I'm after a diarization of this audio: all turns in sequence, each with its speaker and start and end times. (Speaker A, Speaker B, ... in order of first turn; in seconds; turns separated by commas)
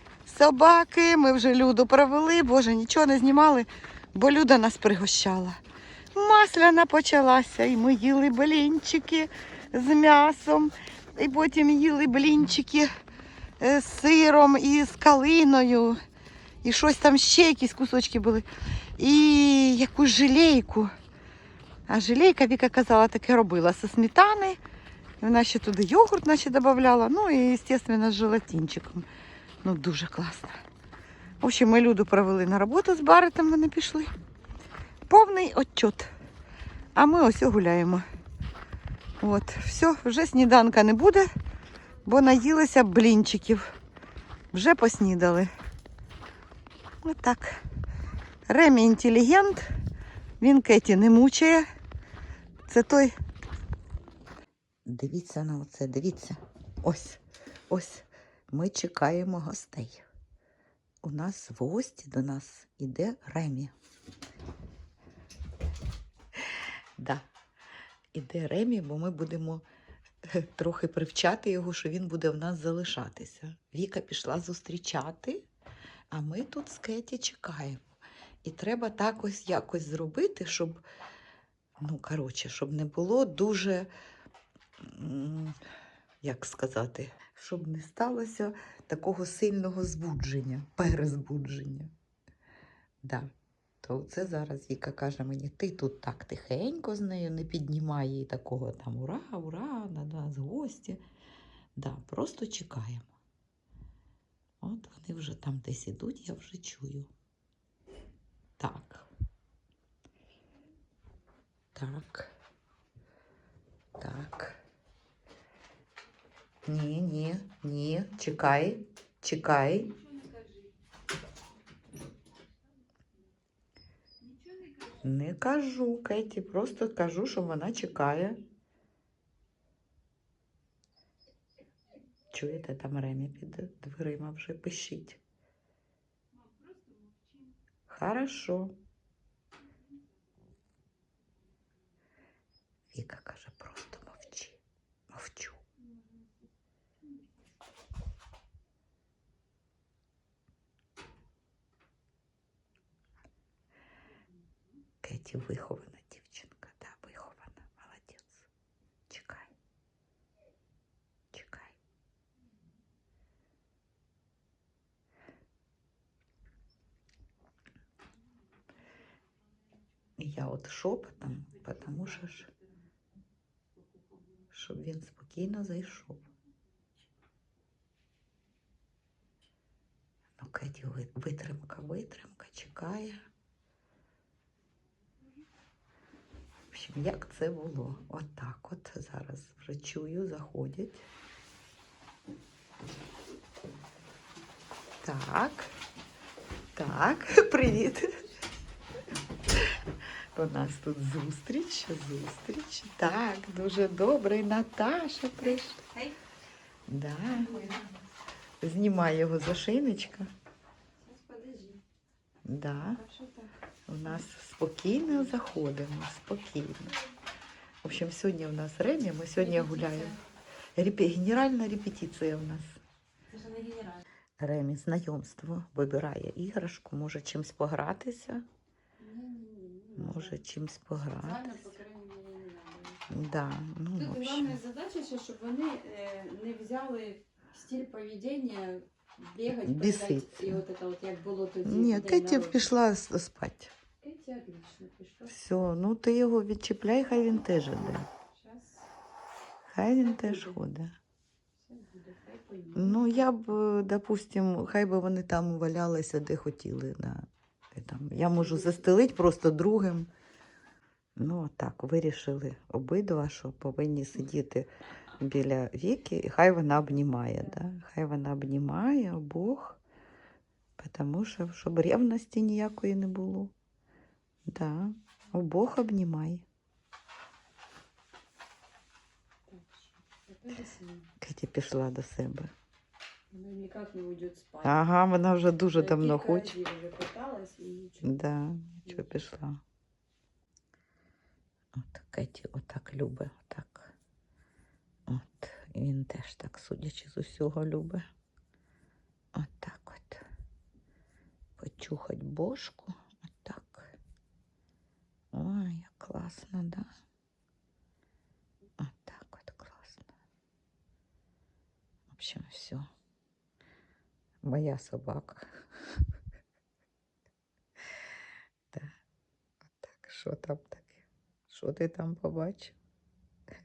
Speaker A: 0.2-5.6, Speaker A: 6.1-12.9, Speaker A: 13.6-16.0, Speaker A: 16.6-18.5, Speaker A: 19.0-20.9, Speaker A: 21.9-24.6, Speaker A: 25.2-29.1, Speaker A: 29.6-30.6, Speaker A: 31.4-34.1, Speaker A: 35.1-36.1, Speaker A: 36.9-38.0, Speaker A: 39.2-41.3, Speaker A: 42.0-43.7, Speaker A: 44.5-45.5, Speaker A: 47.0-47.6, Speaker A: 48.5-49.7, Speaker A: 50.4-51.6, Speaker A: 52.7-53.1, Speaker A: 54.9-60.0, Speaker A: 61.0-63.7, Speaker A: 67.0-67.2, Speaker A: 68.1-69.6, Speaker A: 70.2-75.4, Speaker A: 76.1-77.8, Speaker A: 78.4-80.8, Speaker A: 81.8-83.9, Speaker A: 84.8-85.6, Speaker A: 86.2-91.9, Speaker A: 93.0-93.3, Speaker A: 93.8-101.0, Speaker A: 101.8-103.1, Speaker A: 104.6-107.1, Speaker A: 108.6-109.1, Speaker A: 111.7-112.3, Speaker A: 114.0-114.6, Speaker A: 116.7-120.0, Speaker B: 120.1-120.5, Speaker A: 125.0-128.4, Speaker A: 132.3-135.2, Speaker B: 136.5-137.1, Speaker A: 137.9-138.7, Speaker A: 142.9-144.6, Speaker A: 145.1-145.6, Speaker A: 155.0-158.5, Speaker A: 159.1-159.5, Speaker A: 161.3-161.7, Speaker A: 170.2-172.5, Speaker A: 174.5-176.2, Speaker A: 180.4-183.2, Speaker A: 186.7-191.0, Speaker A: 195.0-195.7, Speaker A: 196.8-198.2, Speaker A: 200.3-205.8, Speaker B: 205.9-206.1, Speaker A: 206.9-207.8, Speaker B: 207.3-207.9, Speaker A: 208.6-210.3, Speaker B: 211.0-211.8, Speaker A: 212.4-213.0, Speaker B: 212.9-213.5, Speaker A: 213.9-216.9, Speaker A: 217.8-220.2, Speaker B: 219.4-220.2, Speaker A: 220.7-222.8, Speaker B: 223.3-224.0, Speaker A: 224.4-228.4, Speaker B: 229.0-230.4, Speaker A: 230.0-231.7, Speaker B: 231.1-233.1, Speaker A: 233.1-234.6, Speaker B: 233.9-242.7, Speaker A: 239.6-240.6, Speaker A: 241.6-243.7, Speaker B: 244.0-245.4, Speaker A: 245.3-248.1, Speaker B: 247.5-248.8, Speaker A: 249.7-250.9, Speaker B: 250.0-250.6, Speaker B: 251.6-253.3, Speaker A: 252.7-260.1, Speaker B: 258.3-259.0, Speaker A: 261.2-269.8, Speaker A: 270.8-273.5, Speaker A: 274.5-276.4, Speaker B: 279.5-281.1, Speaker A: 281.2-282.5, Speaker B: 283.3-284.8, Speaker A: 284.6-286.6, Speaker B: 285.7-288.2, Speaker A: 288.0-289.6, Speaker A: 291.7-293.9, Speaker A: 295.1-298.0, Speaker A: 299.3-300.2, Speaker A: 301.6-303.9, Speaker A: 305.3-306.9, Speaker A: 308.8-310.1, Speaker A: 312.1-312.9, Speaker A: 314.4-315.6, Speaker A: 319.8-322.8